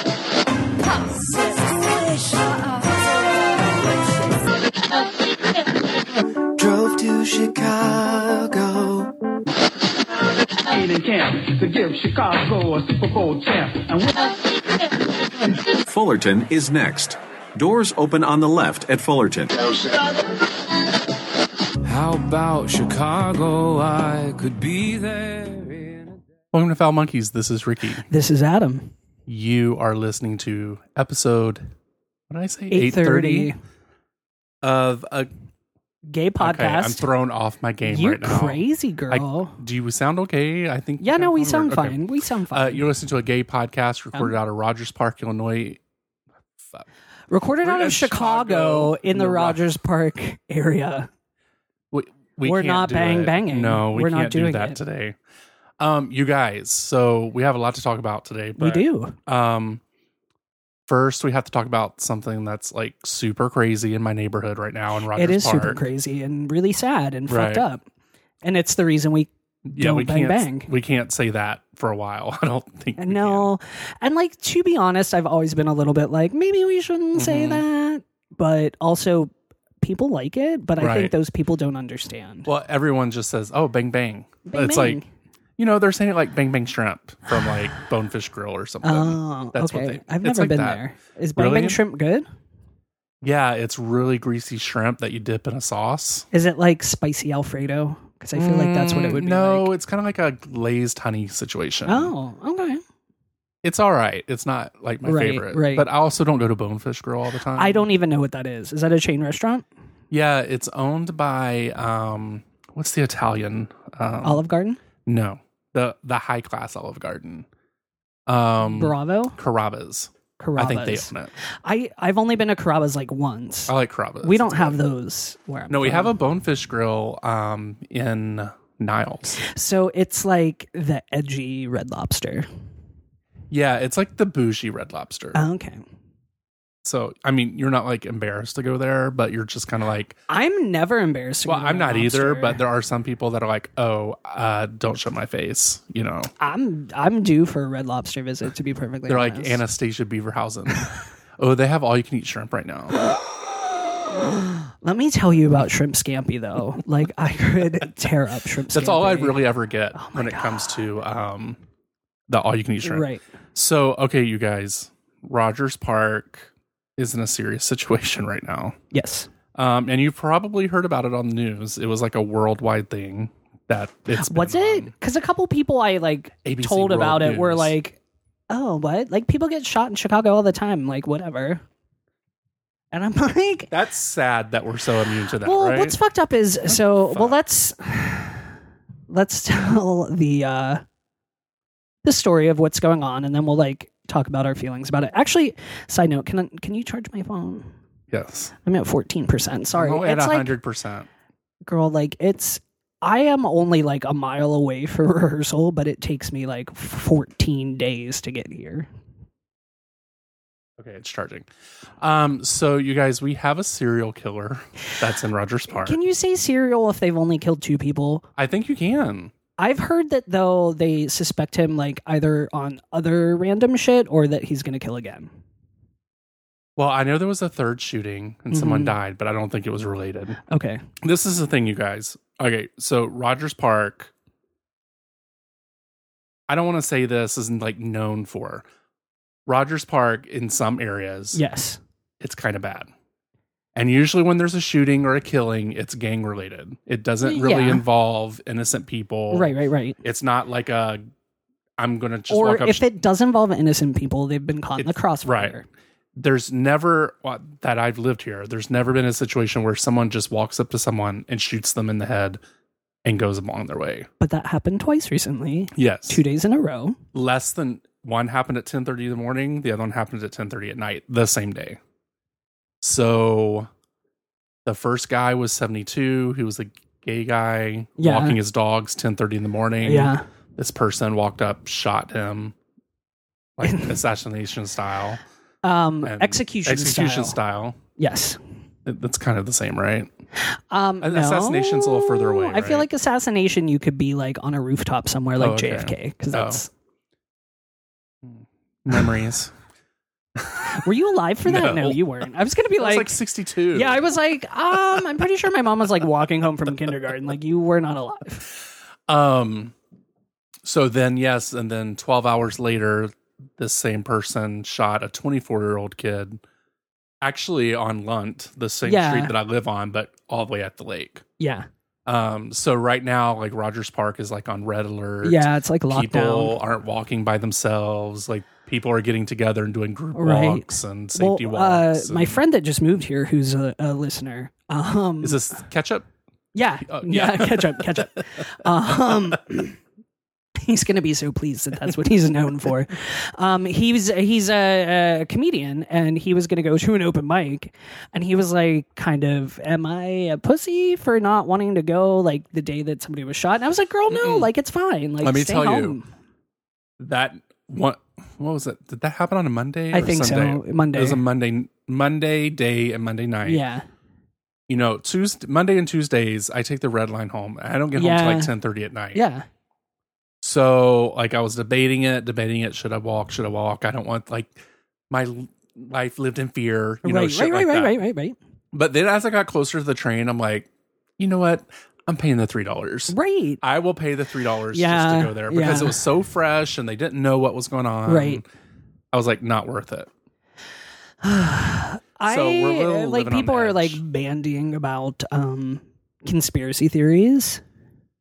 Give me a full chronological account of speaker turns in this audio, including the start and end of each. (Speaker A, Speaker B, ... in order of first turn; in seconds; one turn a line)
Speaker A: 1.1-2.5
Speaker A: 6.6-9.1
Speaker B: 10.7-14.1
Speaker C: 15.8-20.0
Speaker A: 21.8-26.2
Speaker D: 26.5-28.1
Speaker E: 28.1-28.9
Speaker D: 29.3-31.7
Speaker D: 32.3-33.5
Speaker E: 32.7-33.6
Speaker D: 34.6-35.3
Speaker E: 36.1-37.1
Speaker D: 36.4-42.0
Speaker E: 37.8-39.6
Speaker E: 41.0-42.9
Speaker D: 42.5-45.8
Speaker E: 47.3-51.1
Speaker D: 47.6-49.6
Speaker D: 51.9-55.2
Speaker E: 52.4-54.8
Speaker D: 55.8-59.8
Speaker E: 58.6-59.2
Speaker D: 60.9-65.8
Speaker E: 65.1-67.8
Speaker D: 67.3-67.6
Speaker E: 68.4-70.7
Speaker D: 69.7-73.5
Speaker E: 73.0-79.3
Speaker D: 77.1-77.6
Speaker E: 79.8-82.5
Speaker D: 80.8-81.1
Speaker D: 82.5-85.0
Speaker E: 84.5-85.1
Speaker D: 85.6-90.8
Speaker E: 88.8-92.2
Speaker D: 91.3-91.8
Speaker D: 93.2-96.3
Speaker E: 96.3-99.7
Speaker D: 98.3-102.1
Speaker E: 101.8-102.8
Speaker D: 103.6-107.9
Speaker E: 105.0-105.8
Speaker E: 107.6-109.6
Speaker D: 110.1-114.4
Speaker E: 114.2-114.8
Speaker D: 115.0-117.5
Speaker D: 118.3-121.3
Speaker E: 118.6-119.4
Speaker E: 120.4-121.1
Speaker E: 121.6-126.1
Speaker D: 123.7-124.8
Speaker D: 125.7-129.4
Speaker E: 129.4-132.4
Speaker D: 133.5-135.4
Speaker E: 135.3-135.8
Speaker D: 136.8-140.2
Speaker E: 140.3-142.6
Speaker D: 141.4-146.3
Speaker E: 146.4-149.6
Speaker D: 149.1-153.0
Speaker E: 154.1-159.4
Speaker D: 158.7-161.6
Speaker E: 159.9-160.8
Speaker D: 162.3-168.8
Speaker E: 162.8-163.2
Speaker E: 168.9-169.3
Speaker D: 169.5-174.9
Speaker E: 174.2-178.0
Speaker D: 176.4-177.7
Speaker E: 178.5-181.6
Speaker E: 182.9-183.7
Speaker D: 183.7-185.9
Speaker E: 185.4-188.5
Speaker D: 186.7-187.4
Speaker E: 189.1-190.8
Speaker E: 192.0-197.7
Speaker D: 198.1-198.5
Speaker E: 198.6-200.6
Speaker D: 199.7-201.1
Speaker E: 201.7-208.9
Speaker D: 210.8-216.0
Speaker E: 215.7-218.2
Speaker D: 218.4-219.3
Speaker E: 219.6-225.3
Speaker D: 226.8-230.4
Speaker E: 228.5-228.9
Speaker E: 230.5-230.8
Speaker D: 231.0-234.1
Speaker D: 236.5-238.7
Speaker D: 239.5-241.4
Speaker E: 241.3-241.8
Speaker D: 242.2-242.9
Speaker D: 243.7-251.0
Speaker E: 247.2-247.8
Speaker E: 249.3-250.0
Speaker D: 251.8-252.8
Speaker E: 252.3-255.7
Speaker D: 254.8-255.5
Speaker D: 256.2-262.4
Speaker D: 263.0-264.1
Speaker E: 264.2-267.0
Speaker D: 265.7-266.2
Speaker D: 267.1-271.8
Speaker D: 272.8-273.7
Speaker D: 274.6-282.5
Speaker E: 278.0-278.4
Speaker E: 279.8-280.2
Speaker D: 283.6-285.2
Speaker E: 283.6-283.9
Speaker E: 285.6-287.4
Speaker D: 286.0-287.8
Speaker E: 288.0-288.4
Speaker D: 288.9-290.1
Speaker E: 290.7-296.7
Speaker D: 291.0-292.9
Speaker D: 295.4-296.6
Speaker D: 298.2-299.5
Speaker D: 300.4-300.8
Speaker E: 300.8-303.1
Speaker D: 301.4-302.0
Speaker D: 302.8-304.1
Speaker E: 303.7-308.4
Speaker D: 309.1-309.7
Speaker D: 310.6-316.4
Speaker D: 317.2-321.2
Speaker E: 318.8-319.3
Speaker E: 321.4-321.7
Speaker D: 322.1-332.4
Speaker E: 325.2-326.6
Speaker E: 330.1-335.5
Speaker D: 335.2-336.1
Speaker E: 336.5-339.8
Speaker D: 336.8-339.4
Speaker E: 340.6-356.1
Speaker D: 354.1-354.5
Speaker D: 355.2-356.0
Speaker D: 357.0-363.6
Speaker E: 359.9-361.2
Speaker E: 363.4-363.9
Speaker D: 364.7-369.2
Speaker E: 367.9-368.5
Speaker E: 369.1-369.4
Speaker D: 370.4-374.6
Speaker D: 375.1-377.9
Speaker E: 377.0-378.4
Speaker D: 378.7-380.7
Speaker D: 381.2-388.4
Speaker E: 383.1-383.6
Speaker E: 384.7-386.0
Speaker E: 388.1-388.4
Speaker D: 389.1-390.1
Speaker E: 391.2-397.6
Speaker D: 392.2-394.0